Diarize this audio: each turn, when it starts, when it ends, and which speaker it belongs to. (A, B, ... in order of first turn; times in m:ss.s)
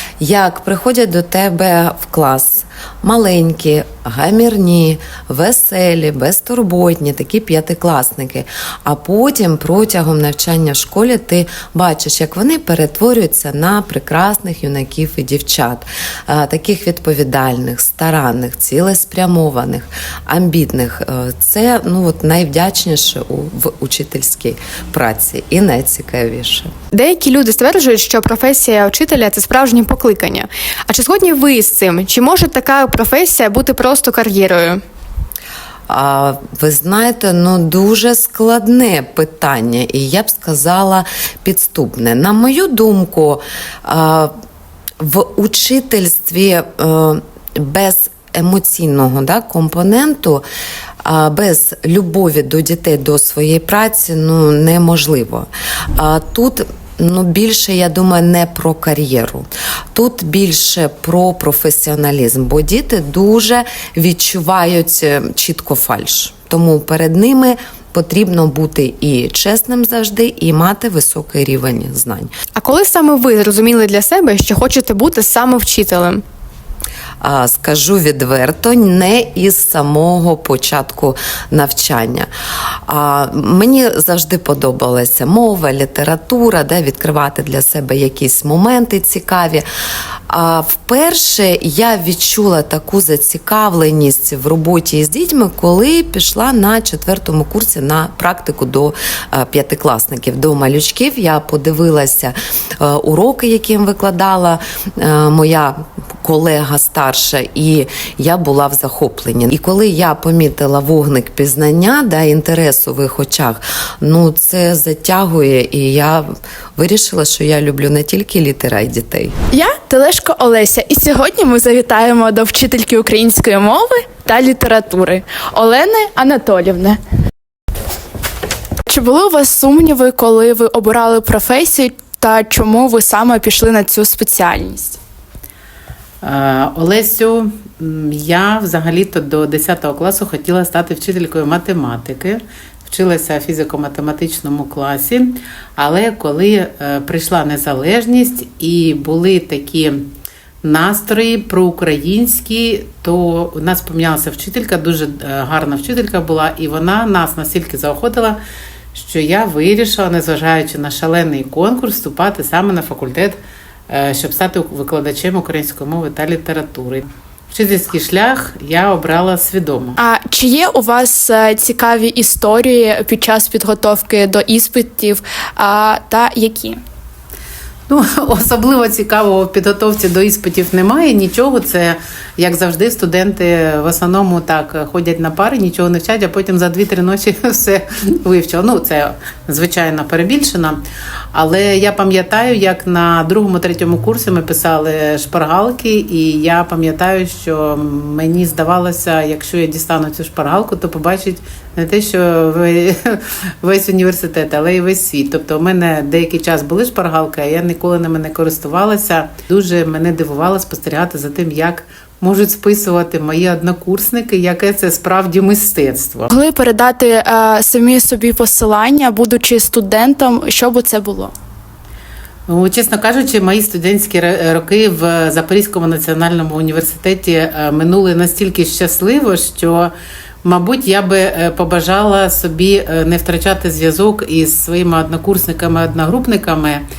0:00.2-0:26.7 A
0:26.9-0:34.8 B
0:35.9-0:44.3 A
0:45.0-0:50.4 A
0:51.0-1:12.3 A
1:12.6-1:16.2 B
1:17.2-1:22.3 A
1:22.9-1:29.6 A
1:30.3-1:59.3 A
1:59.5-2:07.0 C
2:08.9-2:15.0 C
2:16.2-2:30.1 D
2:30.6-2:38.4 D
2:38.9-2:43.4 D
2:43.9-2:50.0 D
2:50.0-2:56.8 C
2:57.9-3:10.8 D
3:11.3-3:36.3 D
3:36.3-3:41.3 C
3:42.5-3:49.9 D
3:50.4-3:56.8 D